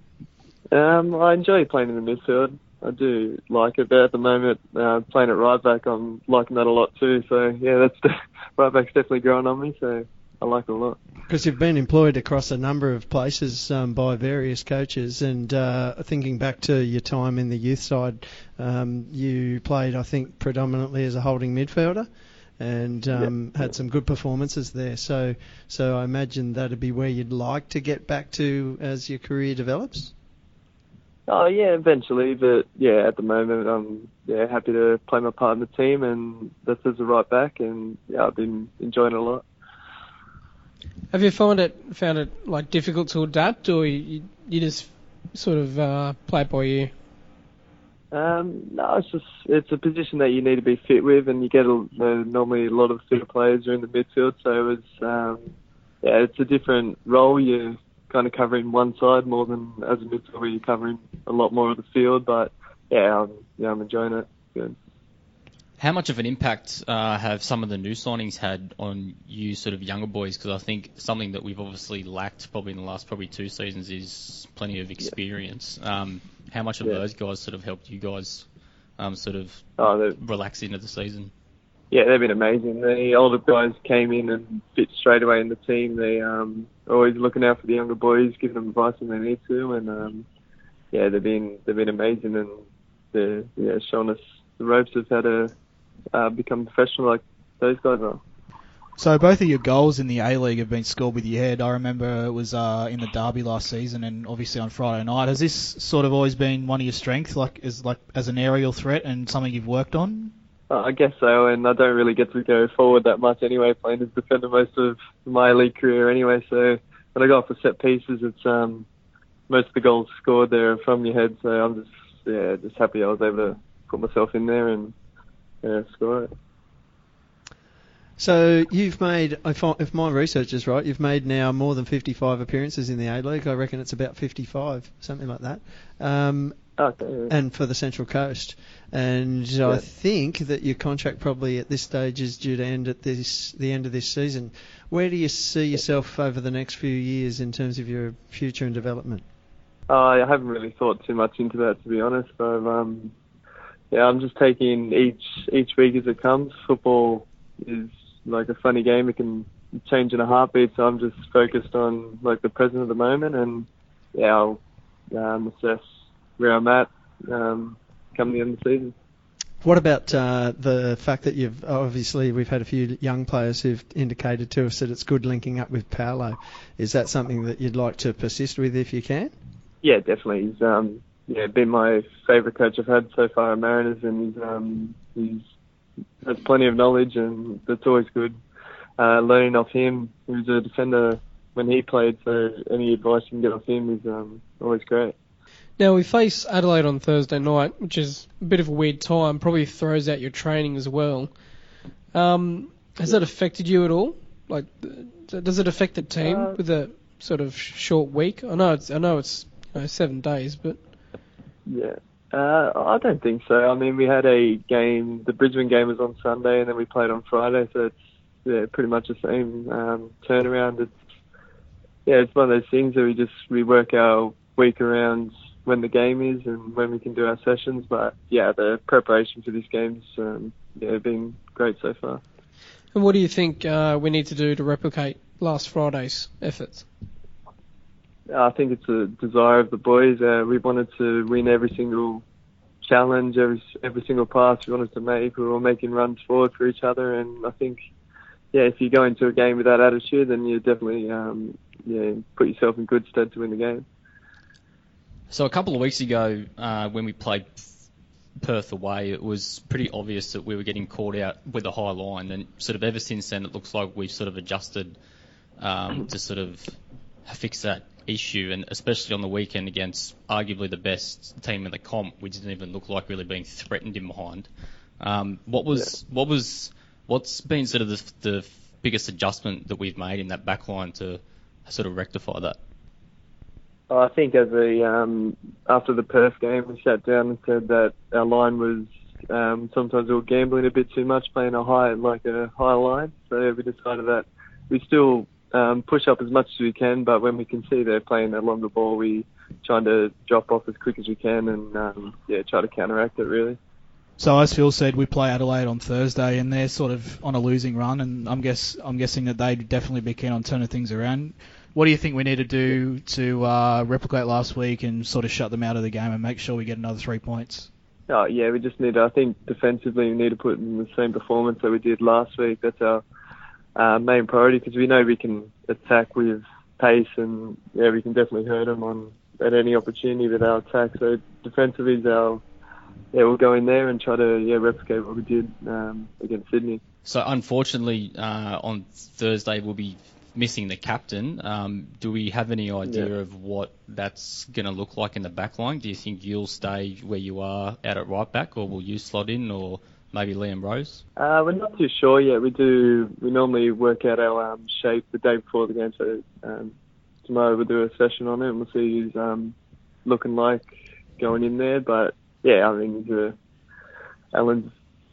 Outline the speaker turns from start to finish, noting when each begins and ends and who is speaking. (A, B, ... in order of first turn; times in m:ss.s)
0:00.7-0:11.0 A
0:11.3-0:22.1 B
0:22.6-0:30.1 B
0:31.3-0:39.4 A
0:41.1-0:46.9 C
0:48.1-0:55.4 A
0:56.0-1:04.8 A
1:05.8-1:18.5 D
1:19.0-1:21.3 D
1:19.8-1:20.2 A
1:21.9-1:30.2 A
1:30.9-1:32.6 A
1:33.1-1:35.5 A
1:36.1-1:38.2 A
1:39.0-1:50.3 E
1:50.7-1:58.8 A
1:59.5-2:04.9 A
2:05.6-2:06.3 A
2:08.2-2:16.7 B
2:16.8-2:17.3 A
2:17.3-2:29.2 B
2:29.9-2:33.1 A
2:33.9-2:44.6 A
2:45.1-2:45.8 A
2:46.4-2:48.9 A
2:49.6-2:59.3 B
2:59.8-3:05.4 A
3:06.2-3:08.4 A
3:09.0-3:15.1 A
3:15.8-3:21.3 C
3:22.1-3:30.8 C
3:26.2-3:26.6 A
3:31.6-3:40.9 A
3:42.0-3:52.2 A
3:52.9-3:56.8 C
3:58.3-4:02.2 A
4:02.8-4:07.8 A
4:08.5-4:13.8 A
4:15.3-4:17.7 D
4:18.4-4:25.0 D
4:25.6-4:42.6 D
4:43.9-5:03.6 A
5:04.2-5:17.7 E
5:18.1-5:23.0 A
5:23.8-5:32.4 A
5:33.1-5:36.8 A
5:37.0-5:51.0 D
5:42.8-5:43.1 A
5:51.2-6:03.4 A
6:04.3-6:04.7 A